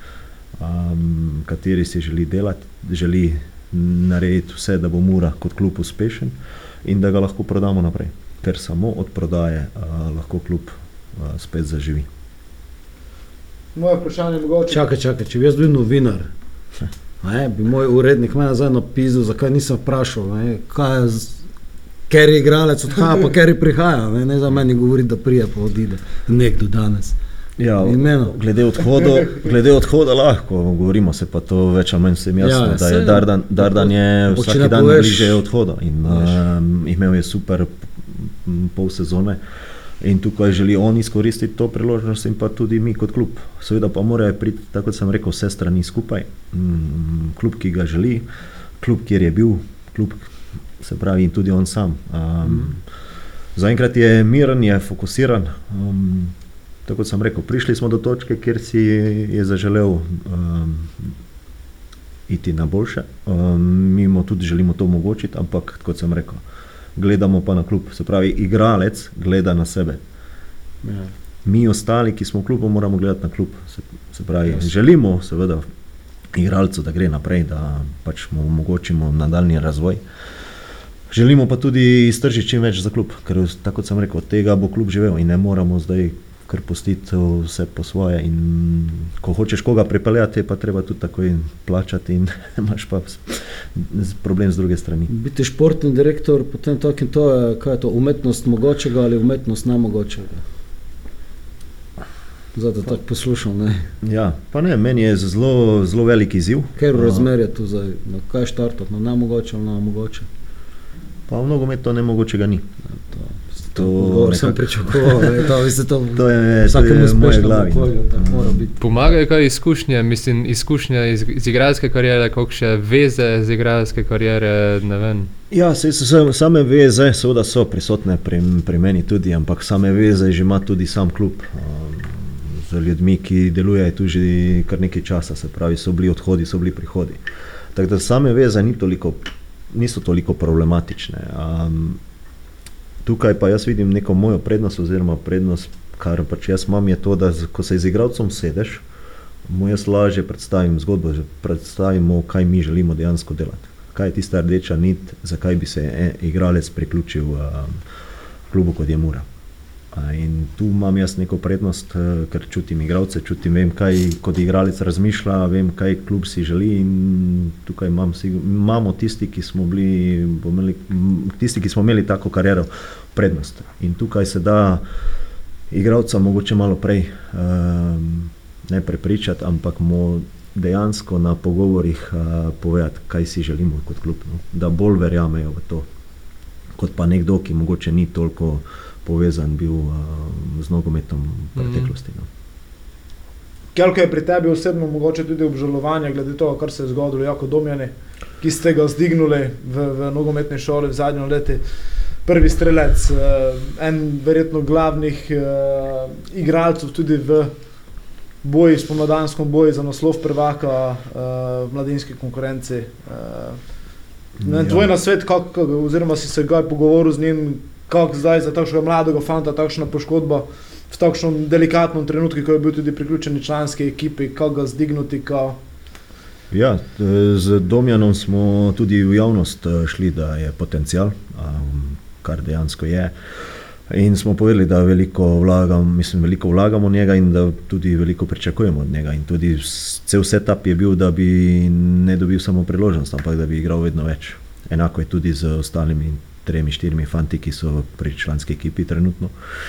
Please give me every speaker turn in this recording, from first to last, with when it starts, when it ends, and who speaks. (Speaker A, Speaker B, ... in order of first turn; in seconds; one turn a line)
Speaker A: 0.6-12.1
Speaker B: 13.8-14.9
Speaker C: 14.7-16.3
Speaker C: 17.2-21.4
Speaker C: 22.1-27.2
Speaker A: 27.6-39.4
Speaker C: 27.8-28.3
Speaker C: 32.4-35.4
Speaker C: 36.1-36.4
Speaker A: 40.0-48.3
Speaker A: 48.8-50.2
Speaker A: 50.8-52.8
Speaker A: 53.6-56.4
Speaker A: 56.9-61.2
Speaker A: 62.3-66.4
Speaker A: 67.0-70.0
Speaker C: 70.8-71.1
Speaker A: 71.5-75.6
Speaker A: 76.3-80.0
Speaker A: 81.1-95.1
Speaker C: 95.1-100.4
Speaker C: 102.5-103.9
Speaker A: 104.0-107.3
Speaker C: 106.8-110.3
Speaker A: 111.3-112.7
Speaker C: 112.9-118.9
Speaker A: 113.8-115.5
Speaker A: 116.2-118.7
Speaker D: 118.8-125.3
Speaker A: 125.5-137.2
Speaker A: 137.8-139.2
Speaker A: 139.7-142.0
Speaker A: 143.0-148.8
Speaker A: 149.5-157.8
Speaker A: 158.5-159.3
Speaker A: 159.9-174.8
Speaker A: 175.7-185.9
Speaker A: 186.8-192.3
Speaker D: 191.6-191.9
Speaker B: 193.8-201.6
Speaker B: 202.2-207.5
Speaker B: 208.4-213.6
Speaker A: 214.4-214.9
Speaker B: 214.4-225.6
Speaker A: 226.5-233.1
Speaker A: 233.9-249.3